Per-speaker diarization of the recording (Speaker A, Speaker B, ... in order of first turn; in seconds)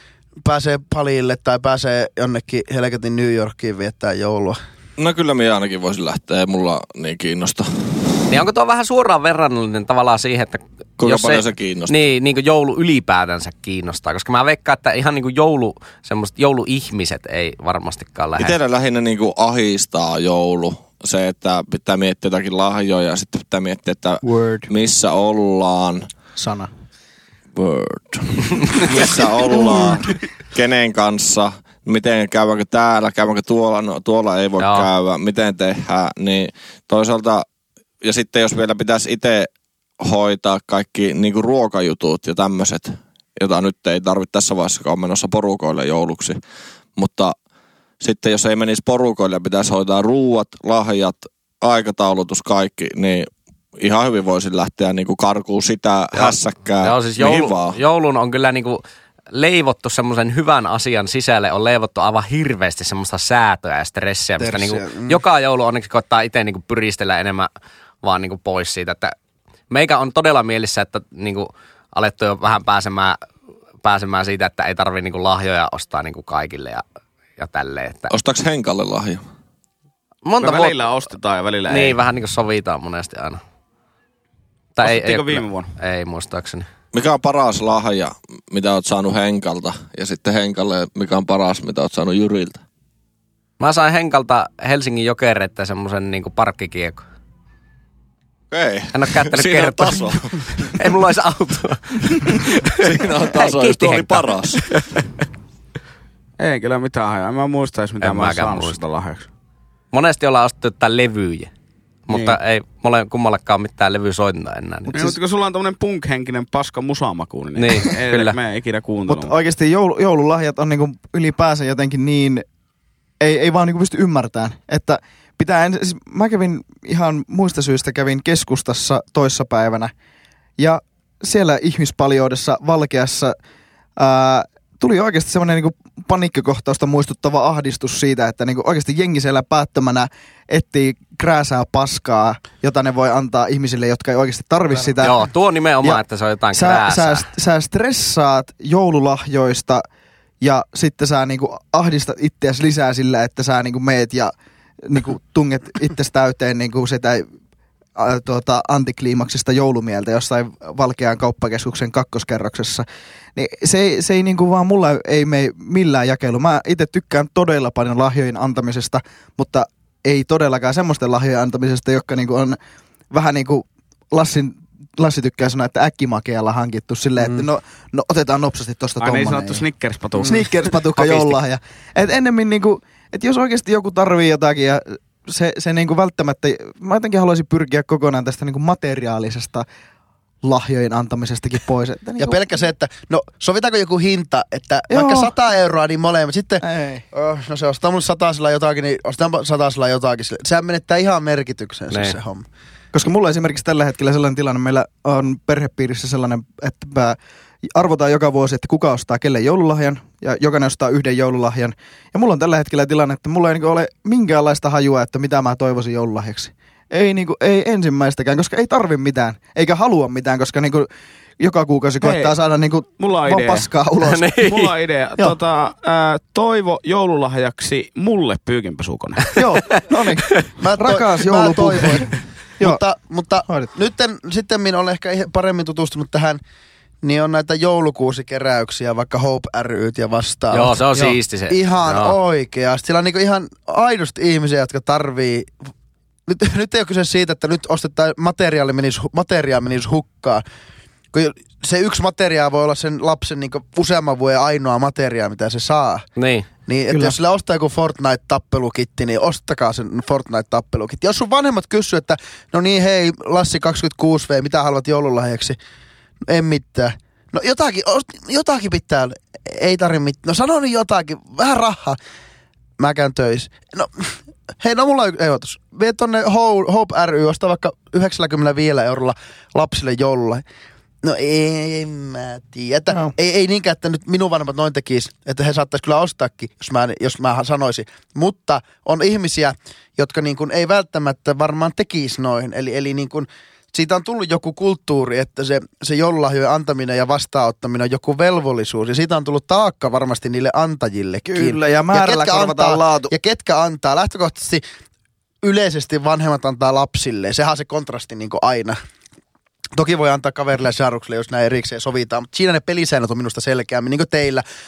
Speaker A: 0.4-4.6, 64.4-65.2, 192.2-202.4, 230.6-232.1, 232.6-236.4, 237.0-245.5, 246.3-250.4, 251.1-256.1, 256.7-265.6, 266.3-272.0, 272.8-280.4, 281.0-304.6, 305.4-308.8, 309.7-314.4
Speaker B: 5.0-8.2, 11.0-12.0, 18.4-26.1, 27.5-37.5, 38.0-46.4, 47.0-47.3, 48.0-57.8, 78.1-79.2, 86.9-92.6, 98.5-100.8, 102.2-104.6
Speaker C: 8.3-18.5, 34.6-34.9, 56.1-67.5, 68.0-69.1, 69.7-73.2, 73.8-76.8, 77.4-78.1, 80.2-80.8, 81.7-83.4, 84.8-86.7, 93.6-97.0, 98.9-105.0, 108.0-108.8, 109.9-111.5, 112.1-115.0, 117.5-118.4, 145.0-147.3, 201.9-202.2, 224.0-224.7, 240.5-242.2, 256.2-256.5
Speaker D: 24.2-24.7, 26.4-26.7, 29.5-30.0, 119.1-122.4, 123.2-129.9, 130.6-133.3, 134.0-145.2, 146.5-149.8, 150.4-154.3, 154.8-157.2, 157.9-162.8, 163.3-172.6, 173.1-179.6, 180.2-189.7, 190.4-192.4, 194.9-195.3, 196.6-197.0, 202.9-207.2, 207.7-220.9, 221.4-224.3, 229.3-232.8, 256.9-257.1, 301.2-303.1
Speaker E: 80.4-82.0, 84.8-85.7, 106.4-109.3, 112.1-112.4, 114.9-119.3, 179.0-181.4, 222.0-222.3, 223.0-223.7, 224.4-229.3